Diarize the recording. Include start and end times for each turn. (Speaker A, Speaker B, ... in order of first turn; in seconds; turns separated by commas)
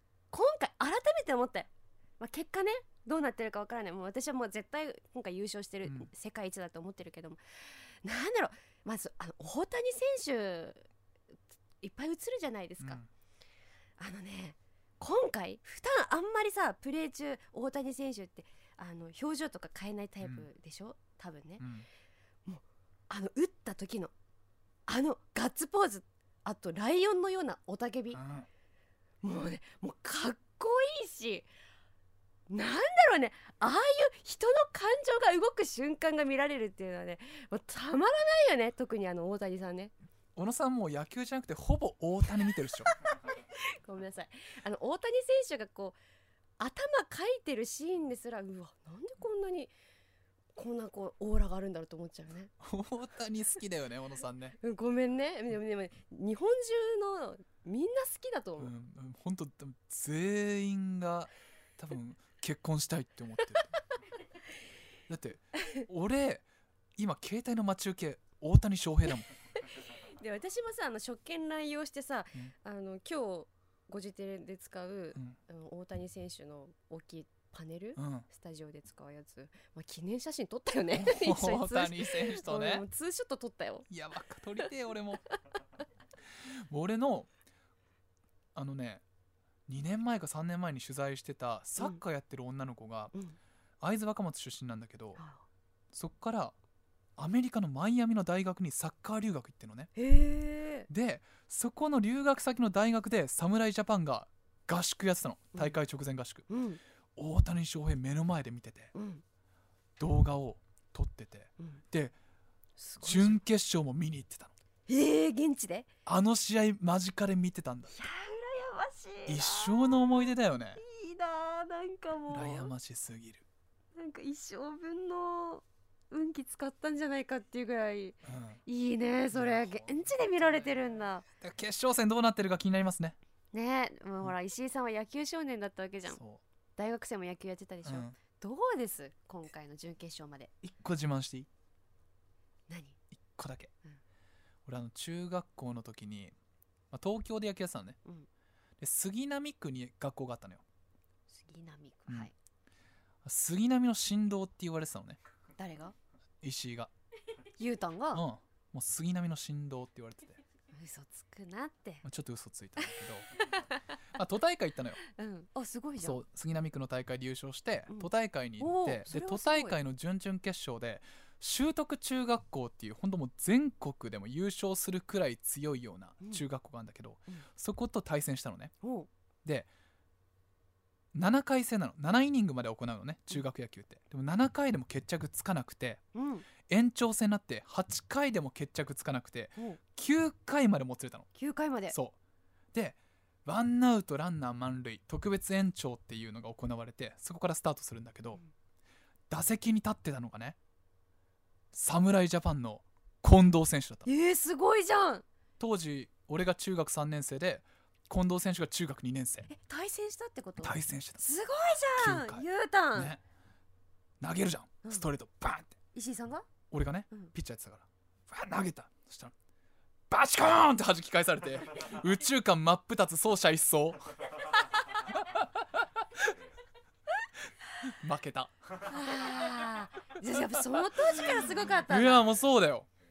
Speaker A: 0.3-10.9, Speaker A: 11.8-13.0, Speaker B: 12.8-13.1, Speaker A: 14.0-21.6, Speaker B: 20.2-20.5, Speaker B: 21.6-21.9, Speaker A: 22.5-24.1, Speaker A: 24.9-28.2, Speaker B: 28.1-28.5, Speaker A: 29.2-31.5, Speaker A: 32.5-39.9, Speaker B: 40.4-42.9, Speaker A: 43.3-46.0, Speaker A: 46.6-49.7, Speaker A: 50.5-52.5, Speaker B: 52.6-54.6, Speaker A: 54.6-58.7, Speaker B: 58.6-63.8, Speaker B: 65.1-66.5, Speaker B: 67.0-69.3, Speaker A: 69.7-83.9, Speaker B: 78.0-78.3, Speaker B: 80.9-82.8, Speaker B: 83.9-85.2, Speaker B: 86.7-87.3, Speaker B: 88.6-89.0, Speaker B: 89.7-93.1, Speaker B: 93.8-95.2, Speaker A: 95.2-95.4, Speaker B: 95.9-96.5, Speaker B: 97.2-99.9, Speaker A: 100.0-100.9, Speaker B: 100.9-106.5, Speaker A: 106.5-106.8, Speaker B: 107.2-108.9, Speaker A: 109.0-109.2, Speaker B: 110.0-112.2, Speaker A: 112.8-113.4, Speaker B: 113.0-114.5, Speaker A: 114.9-115.9, Speaker B: 116.1-118.0, Speaker A: 117.9-120.1, Speaker B: 119.3-120.8, Speaker A: 120.8-122.7, Speaker B: 122.3-123.5, Speaker A: 124.0-131.2, Speaker B: 128.2-128.6, Speaker B: 129.3-129.9, Speaker B: 131.4-133.2, Speaker A: 133.5-136.2, Speaker B: 136.1-136.4, Speaker A: 136.8-140.5, Speaker B: 137.8-138.2, Speaker B: 140.6-141.5, Speaker A: 142.7-143.0, Speaker B: 143.2-143.7, Speaker B: 144.7-146.3, Speaker B: 146.9-148.0, Speaker B: 148.8-150.6, Speaker A: 151.3-152.3, Speaker B: 153.2-155.2, Speaker A: 155.6-155.9, Speaker B: 156.4-156.9, Speaker A: 157.6-158.2, Speaker B: 158.1-160.4, Speaker A: 160.7-162.0, Speaker B: 162.0-163.3, Speaker A: 163.3-164.0, Speaker B: 164.1-165.0, Speaker A: 165.0-166.2, Speaker B: 166.0-178.7, Speaker A: 168.6-169.8, Speaker A: 178.8-179.1, Speaker B: 181.1-186.0, Speaker A: 186.1-186.5, Speaker B: 186.7-191.3, Speaker A: 191.3-192.0, Speaker B: 192.7-198.4, Speaker B: 199.3-200.6, Speaker B: 201.7-204.1, Speaker A: 204.1-205.2, Speaker B: 205.6-209.5, Speaker A: 209.5-213.2, Speaker B: 210.6-211.2, Speaker B: 212.0-213.2, Speaker B: 214.2-215.8, Speaker A: 215.9-216.5, Speaker B: 216.7-219.3, Speaker B: 220.1-224.1, Speaker B: 225.1-226.3, Speaker B: 227.8-228.9, Speaker A: 228.9-232.3, Speaker B: 231.2-232.9